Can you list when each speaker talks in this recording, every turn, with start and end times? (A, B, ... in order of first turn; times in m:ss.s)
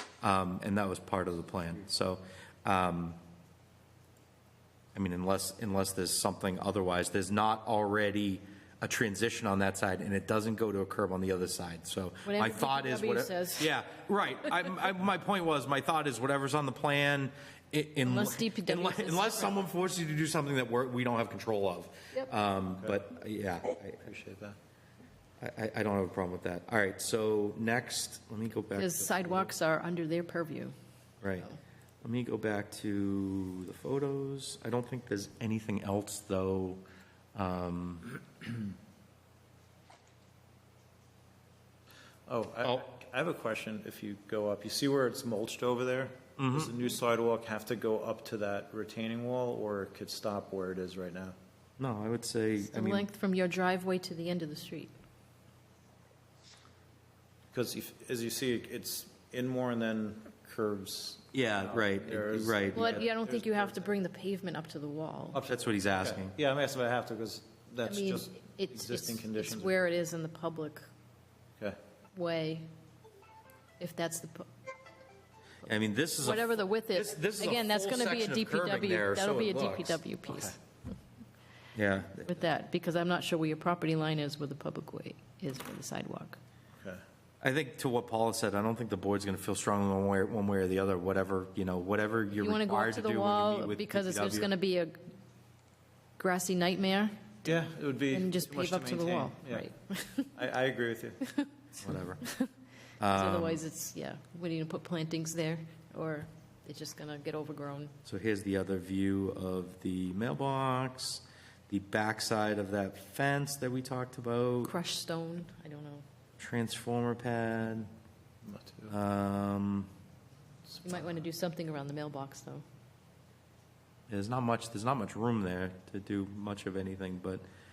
0:00.2-0:03.2 A
0:04.9-0:24.1 A
0:12.2-0:13.7 B
0:18.0-0:19.5 B
0:24.0-0:24.6 C
0:25.4-0:29.5 A
0:28.8-0:30.7 B
0:31.2-0:31.5 A
0:32.0-0:36.8 A
0:37.3-0:38.2 A
0:42.3-0:51.3 C
0:46.4-0:46.7 A
0:51.8-0:53.0 A
0:52.6-0:54.9 B
0:57.5-1:03.9 C
1:01.3-1:03.0 A
1:02.7-1:05.4 B
1:05.3-1:09.7 C
1:05.5-1:06.3 A
1:07.8-1:10.8 B
1:12.1-1:12.7 B
1:13.8-1:14.5 B
1:15.6-1:20.0 A
1:16.2-1:20.6 B
1:20.2-1:20.5 C
1:21.7-1:22.4 A
1:22.2-1:26.4 B
1:27.4-1:34.5 A
1:32.3-1:35.0 B
1:36.2-1:37.1 B
1:37.4-1:39.7 C
1:38.1-1:40.3 B
1:40.3-1:41.2 C
1:41.8-1:42.2 A
1:42.2-1:42.5 B
1:43.0-1:43.6 A
1:43.1-1:47.9 B
1:48.0-1:54.7 A
1:54.6-1:56.0 B
1:56.4-1:57.9 A
1:58.4-1:58.9 C
1:58.9-1:59.9 A
2:00.8-2:02.6 B
2:04.1-2:07.4 A